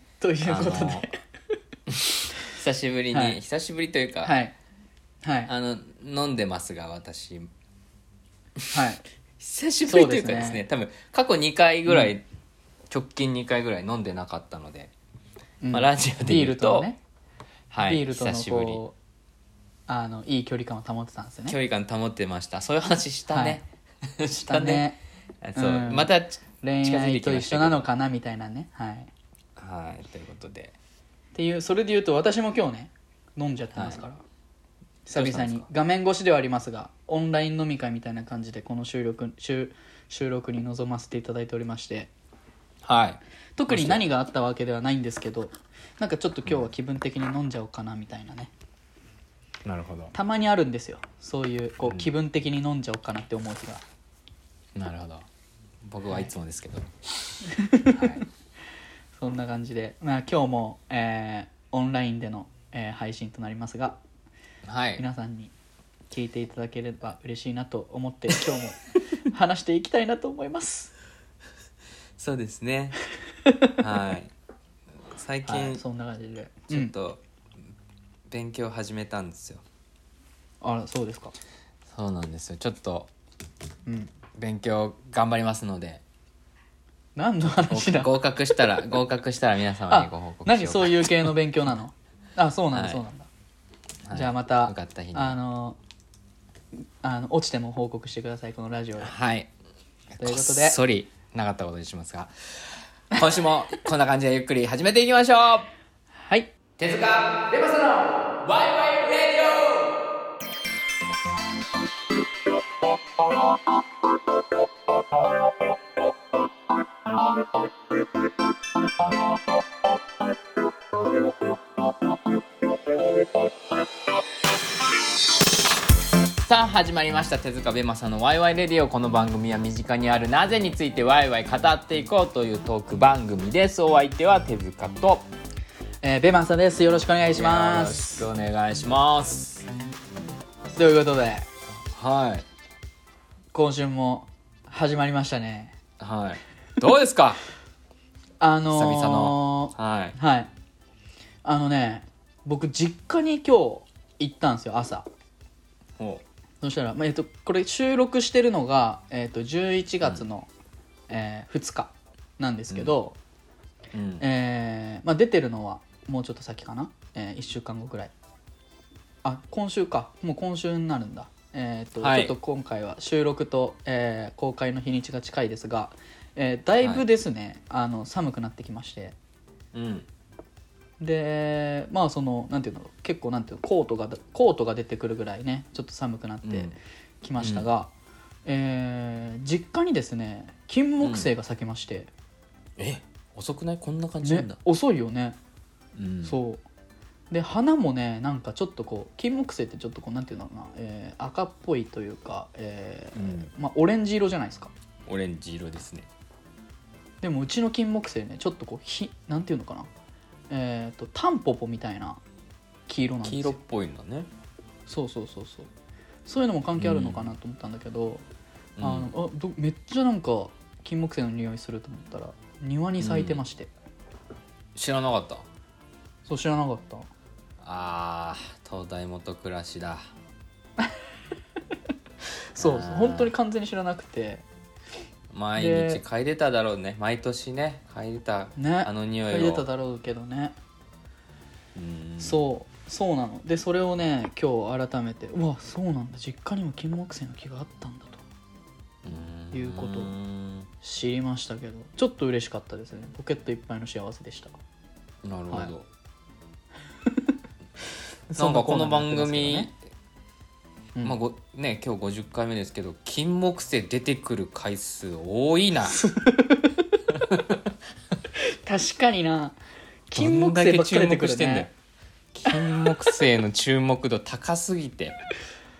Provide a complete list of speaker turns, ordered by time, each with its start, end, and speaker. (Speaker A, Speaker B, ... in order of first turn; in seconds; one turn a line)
Speaker A: 0.2-1.2
Speaker B: 0.4-1.1
Speaker B: 1.9-4.3
Speaker A: 3.1-3.4
Speaker A: 4.2-4.5
Speaker A: 5.2-5.5
Speaker B: 5.5-7.5
Speaker A: 8.7-9.0
Speaker B: 9.4-12.2
Speaker A: 9.9-10.6
Speaker B: 12.9-14.9
Speaker A: 15.6-17.0
Speaker B: 15.7-16.9
Speaker B: 17.7-18.8
Speaker A: 17.8-18.9
Speaker A: 19.9-21.6
Speaker B: 21.5-24.9
Speaker A: 23.3-23.6
Speaker A: 24.4-25.0
Speaker B: 25.4-27.9
Speaker A: 25.6-26.1
Speaker A: 26.6-29.1
Speaker B: 29.6-30.8
Speaker A: 31.3-34.2
Speaker B: 33.7-34.0
Speaker A: 35.0-42.1
Speaker B: 35.1-35.6
Speaker B: 42.8-44.0
Speaker A: 43.6-48.5
Speaker B: 49.6-50.1
Speaker A: 50.1-53.8
Speaker B: 51.8-52.1
Speaker B: 54.8-55.3
Speaker B: 55.8-56.9
Speaker A: 57.5-58.2
Speaker B: 57.8-58.2
Speaker A: 59.1-64.0
Speaker B: 64.7-65.0
Speaker A: 65.0-65.5
Speaker A: 66.1-70.9
Speaker B: 72.2-73.0
Speaker B: 73.8-74.3
Speaker B: 75.1-75.8
Speaker A: 75.4-76.9
Speaker B: 76.7-77.2
Speaker B: 78.3-79.6
Speaker A: 80.6-81.3
Speaker B: 81.9-83.1
Speaker A: 83.8-84.1
Speaker B: 84.3-86.0
Speaker A: 87.2-88.6
Speaker B: 87.7-91.3
Speaker A: 89.9-93.3
Speaker B: 92.7-93.0
Speaker B: 94.0-95.4
Speaker A: 94.1-95.8
Speaker A: 96.7-99.1
Speaker B: 99.0-99.5
Speaker B: 100.1-105.7
Speaker A: 100.2-100.8
Speaker A: 106.1-106.5
Speaker B: 106.8-109.9
Speaker B: 126.4-135.2
Speaker A: 136.0-138.3
Speaker B: 137.3-139.7
Speaker A: 140.7-141.5
Speaker B: 141.9-142.4
Speaker A: 143.5-145.7
Speaker B: 146.0-147.4
Speaker A: 148.4-150.5
Speaker B: 148.7-150.2
Speaker A: 151.4-155.1
Speaker B: 156.0-156.2
Speaker A: 156.6-160.5
Speaker A: 161.1-163.2
Speaker B: 163.9-164.3
Speaker A: 164.2-168.1
Speaker A: 169.2-179.2
Speaker B: 172.0-172.3
Speaker B: 179.7-180.1
Speaker A: 181.0-187.9
Speaker B: 186.4-186.7
Speaker B: 187.4-187.7
Speaker A: 188.4-192.1
Speaker B: 191.0-191.3
Speaker B: 192.8-194.6
Speaker A: 194.2-195.4
Speaker B: 195.9-196.4
Speaker A: 196.2-196.6
Speaker A: 197.3-204.7
Speaker B: 203.1-203.5
Speaker B: 205.1-206.1
Speaker A: 207.2-209.9
Speaker A: 210.5-212.2
Speaker A: 212.9-213.6
Speaker B: 213.2-214.3
Speaker A: 214.9-215.7
Speaker A: 216.2-218.2
Speaker B: 216.8-217.3
Speaker B: 218.8-219.1
Speaker A: 218.8-223.7
Speaker B: 223.0-223.4
Speaker B: 224.8-225.4
Speaker A: 226.2-227.1
Speaker B: 227.6-230.0
Speaker A: 232.5-234.4
Speaker B: 232.6-233.3
Speaker B: 235.3-239.7
Speaker A: 235.6-236.0
Speaker A: 238.6-240.6
Speaker B: 241.7-242.5
Speaker A: 242.2-248.2
Speaker B: 249.0-250.7
Speaker A: 249.5-250.1
Speaker A: 250.8-254.6
Speaker B: 255.2-255.8
Speaker A: 258.3-259.7
Speaker B: 258.4-259.8
Speaker B: 261.0-266.0
Speaker A: 266.0-266.9
Speaker B: 267.1-267.6
Speaker A: 268.3-269.6
Speaker A: 270.1-271.7
Speaker B: 270.1-271.7
Speaker B: 272.3-275.2